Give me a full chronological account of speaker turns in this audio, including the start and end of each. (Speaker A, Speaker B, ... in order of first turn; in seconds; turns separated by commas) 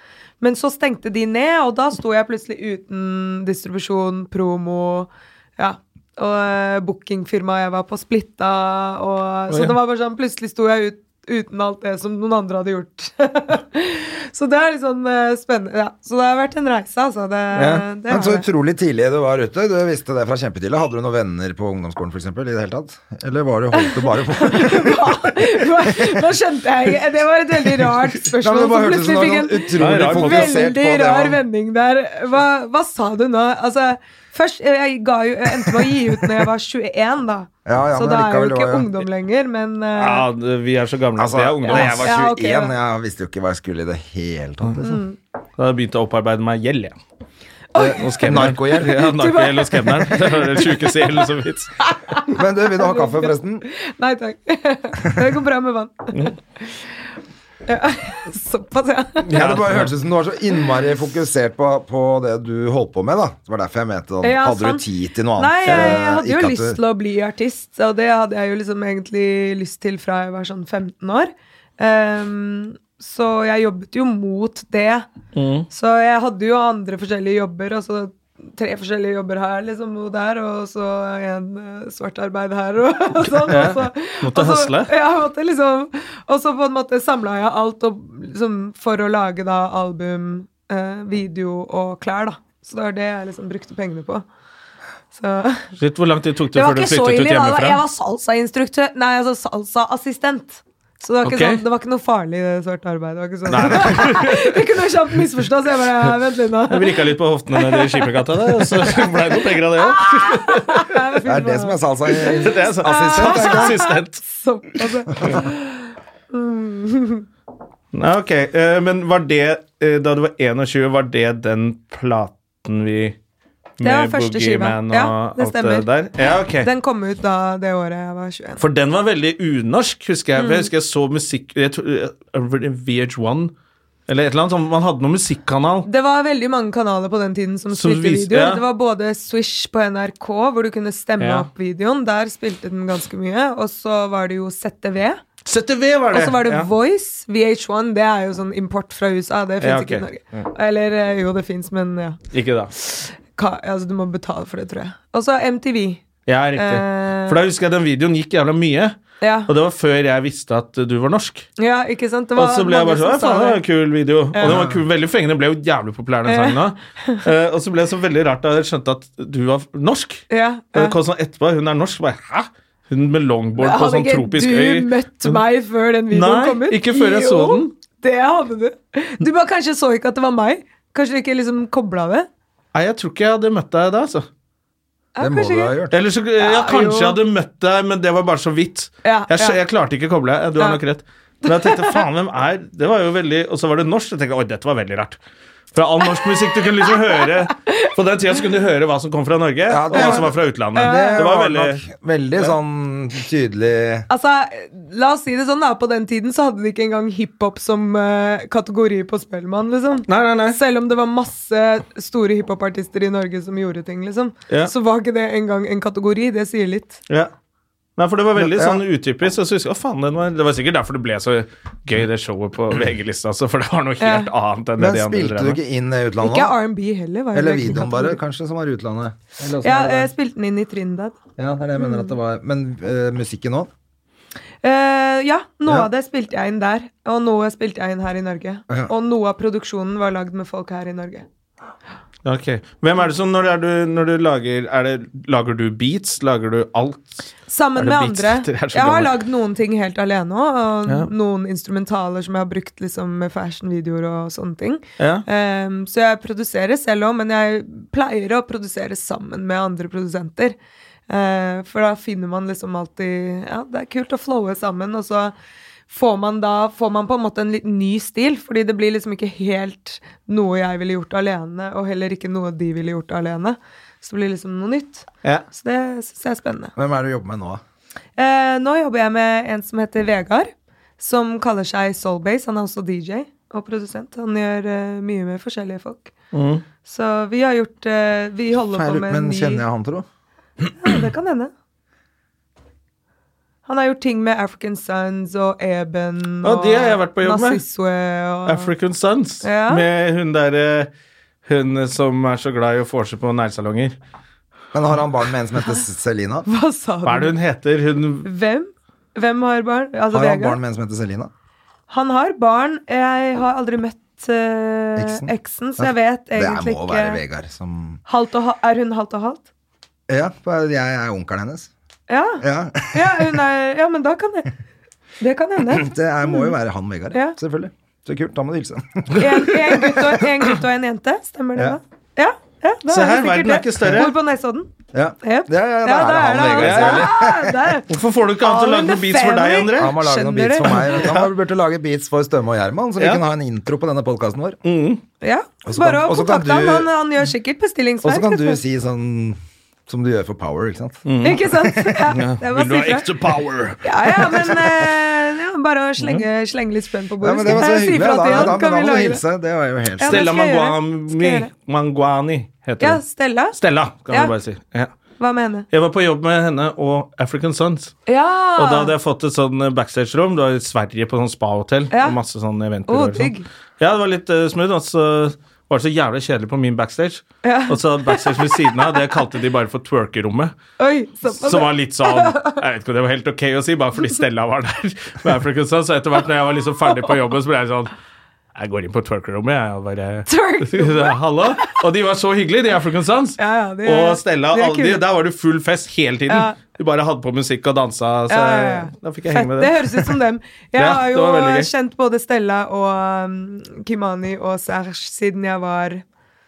Speaker A: 0.4-18.5, Speaker B: 9.5-9.8, Speaker B: 17.6-17.9, Speaker C: 18.1-26.2, Speaker A: 23.8-40.3, Speaker C: 28.4-31.4, Speaker B: 29.8-30.7, Speaker C: 37.6-38.9, Speaker B: 40.0-42.1, Speaker C: 41.2-45.0, Speaker A: 41.7-42.7, Speaker A: 44.8-45.2, Speaker B: 45.6-47.0, Speaker A: 47.7-51.2, Speaker C: 47.8-49.0, Speaker B: 48.0-51.7, Speaker A: 51.8-56.8, Speaker C: 52.3-53.6, Speaker A: 57.7-59.4, Speaker C: 59.2-66.8, Speaker B: 59.3-59.9, Speaker A: 64.2-64.8, Speaker A: 65.4-75.1, Speaker B: 65.7-66.0, Speaker B: 75.3-75.7, Speaker A: 75.7-94.3, Speaker B: 83.5-84.9, Speaker A: 95.1-95.7, Speaker B: 95.8-97.8, Speaker A: 96.5-117.3, Speaker B: 101.2-101.6, Speaker B: 103.5-104.7, Speaker B: 106.7-111.0, Speaker C: 111.2-113.8, Speaker B: 112.3-114.2, Speaker B: 117.9-123.2, Speaker B: 123.8-126.7, Speaker A: 123.8-125.9, Speaker A: 126.6-128.6, Speaker B: 128.6-133.5, Speaker A: 130.4-130.7, Speaker B: 134.1-135.9, Speaker A: 135.8-145.2, Speaker B: 137.7-138.6, Speaker B: 141.2-141.5, Speaker B: 145.4-146.7, Speaker A: 146.1-152.2, Speaker B: 149.6-150.1, Speaker B: 152.3-152.7, Speaker A: 152.8-156.0, Speaker B: 156.3-161.5, Speaker A: 156.6-157.4, Speaker A: 159.2-159.5, Speaker A: 161.6-163.6, Speaker B: 162.4-175.4, Speaker A: 164.3-164.6, Speaker C: 164.4-164.8, Speaker A: 166.3-167.2, Speaker A: 170.3-170.9, Speaker A: 173.6-182.3, Speaker B: 176.1-177.7, Speaker B: 182.7-184.3, Speaker A: 185.2-185.8, Speaker C: 185.2-186.0, Speaker B: 185.9-195.2, Speaker A: 186.4-187.2, Speaker A: 189.0-189.6, Speaker A: 191.5-192.0, Speaker B: 195.7-201.8, Speaker A: 197.6-197.9, Speaker C: 199.7-204.1, Speaker A: 199.9-201.3, Speaker A: 204.1-217.0, Speaker B: 210.1-210.6, Speaker B: 218.0-225.6, Speaker C: 218.4-218.8, Speaker A: 224.0-224.3, Speaker C: 224.8-226.6, Speaker A: 226.2-228.2, Speaker C: 227.3-230.1, Speaker A: 229.6-231.2, Speaker C: 231.4-233.7, Speaker A: 231.8-232.1, Speaker A: 234.6-241.3, Speaker B: 242.2-249.2, Speaker A: 247.5-260.6, Speaker B: 255.0-255.2, Speaker A: 261.1-265.3, Speaker A: 265.9-276.7, Speaker C: 276.8-277.6, Speaker A: 278.2-286.1, Speaker B: 286.3-286.6, Speaker A: 286.8-289.6, Speaker C: 288.7-290.1, Speaker A: 290.8-291.5, Speaker A: 293.7-298.7, Speaker B: 296.4-297.6, Speaker B: 298.5-300.9, Speaker A: 299.4-299.8, Speaker B: 301.5-303.9, Speaker C: 304.7-306.5, Speaker A: 306.5-307.3, Speaker B: 307.1-308.3, Speaker A: 308.2-310.6, Speaker C: 310.1-311.3, Speaker A: 311.9-317.2, Speaker C: 315.0-318.0, Speaker A: 318.1-319.5, Speaker C: 320.1-321.7, Speaker A: 322.1-324.5, Speaker C: 322.4-323.4, Speaker A: 325.2-326.5, Speaker C: 325.7-330.1, Speaker A: 327.1-327.4, Speaker A: 329.2-334.7, Speaker B: 332.9-334.1, Speaker C: 334.9-337.8, Speaker A: 335.2-337.9, Speaker B: 336.6-337.1, Speaker B: 337.9-340.0, Speaker A: 338.4-341.0, Speaker C: 339.7-344.6, Speaker B: 340.8-341.3, Speaker B: 344.6-345.0, Speaker A: 345.2-348.6, Speaker C: 345.6-346.9, Speaker C: 348.0-352.1, Speaker B: 351.1-351.4, Speaker A: 351.2-353.1, Speaker B: 352.1-354.5, Speaker A: 353.8-359.2, Speaker C: 357.2-360.3, Speaker B: 358.2-358.5, Speaker A: 360.0-361.5, Speaker B: 360.0-363.0, Speaker A: 362.8-363.6, Speaker B: 363.5-364.9, Speaker A: 365.2-365.7, Speaker B: 365.7-368.0, Speaker A: 368.1-368.9, Speaker B: 368.6-380.6, Speaker A: 371.9-372.2, Speaker A: 372.9-373.5, Speaker A: 377.4-379.0, Speaker A: 380.8-382.6, Speaker B: 381.3-387.9, Speaker B: 388.6-400.1, Speaker A: 390.3-391.8, Speaker A: 393.4-395.0, Speaker A: 396.3-396.6, Speaker A: 398.3-406.0, Speaker B: 400.8-401.7